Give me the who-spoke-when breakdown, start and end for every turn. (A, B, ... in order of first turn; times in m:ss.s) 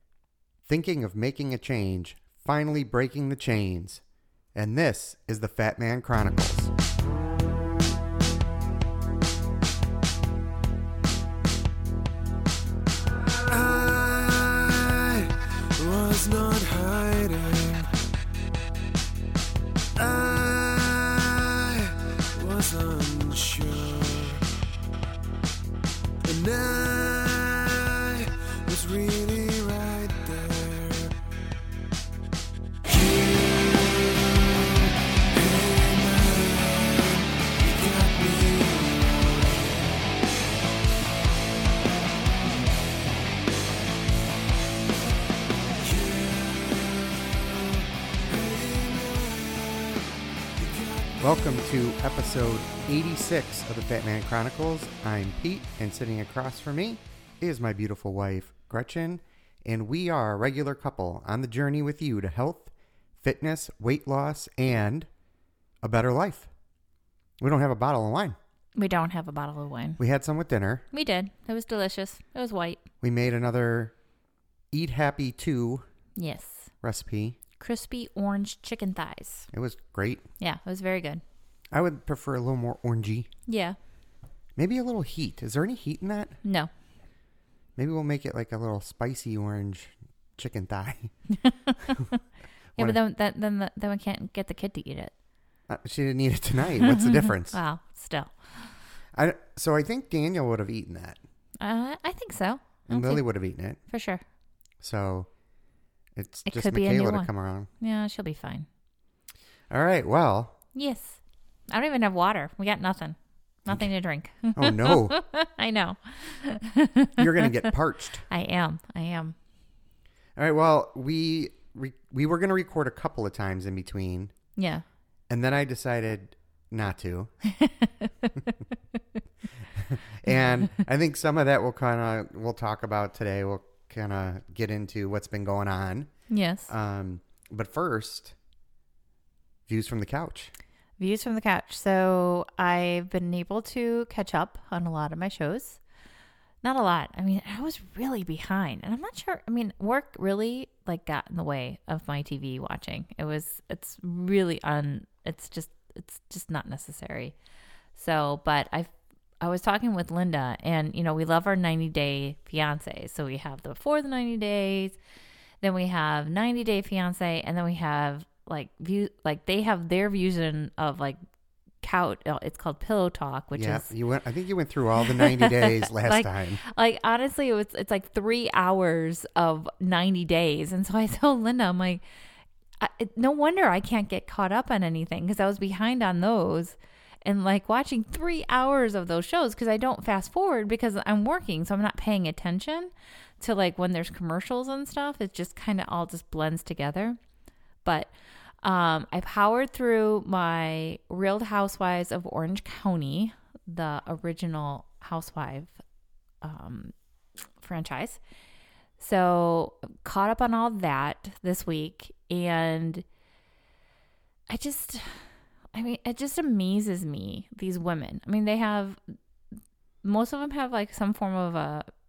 0:00.6-0:04.0 A
0:04.5-0:06.7 A
0:13.4-0:17.9 B
0:20.0-0:24.4 B
0:26.2-0:31.2 B
0:32.8-0:40.0 B
0:45.7-0:51.6 B
0:51.2-1:05.1 A
1:05.8-1:06.5 A
1:07.4-1:08.4 A
1:08.7-1:10.0 C
1:10.0-1:10.8 A
1:10.9-1:12.8 C
1:13.0-1:13.9 A
1:14.7-1:15.8 A
1:16.2-1:16.7 C
1:16.8-1:17.4 A
1:17.6-1:19.5 C
1:19.5-1:20.2 A
1:20.4-1:21.2 C
1:21.7-1:23.3 A
1:23.5-1:23.8 C
1:24.6-1:26.4 A
1:26.4-1:26.7 C
1:27.8-1:31.1 A
1:31.4-1:32.1 C
1:32.8-1:35.1 C
1:35.7-1:37.6 A
1:36.8-1:38.7 C
1:39.1-1:41.2 A
1:41.6-1:43.2 C
1:42.9-1:43.8 A
1:43.9-1:44.2 C
1:44.8-1:45.3 A
1:46.2-1:47.7 A
1:46.4-1:48.7 C
1:49.7-1:50.5 A
1:50.7-1:57.7 C
1:54.5-1:55.2 A
1:57.2-1:58.2 A
1:58.2-1:59.4 C
2:00.4-2:04.3 A
2:04.6-2:04.8 C
2:05.3-2:07.3 A
2:07.4-2:08.3 C
2:09.8-2:16.1 A
2:16.3-2:16.7 C
2:16.7-2:18.3 A
2:19.7-2:20.5 A
2:21.0-2:25.8 C
2:26.6-2:37.3 C
2:37.9-2:45.0 C
2:45.6-2:51.2 C
2:51.8-2:53.9 C
2:53.5-2:56.6 A
2:55.0-3:02.0 C
3:02.8-3:17.2 C
3:17.8-3:25.8 C
3:26.4-3:26.9 C
3:27.6-3:28.2 C
3:29.0-3:33.0 C
3:34.5-3:39.0 C
3:40.0-3:41.9 C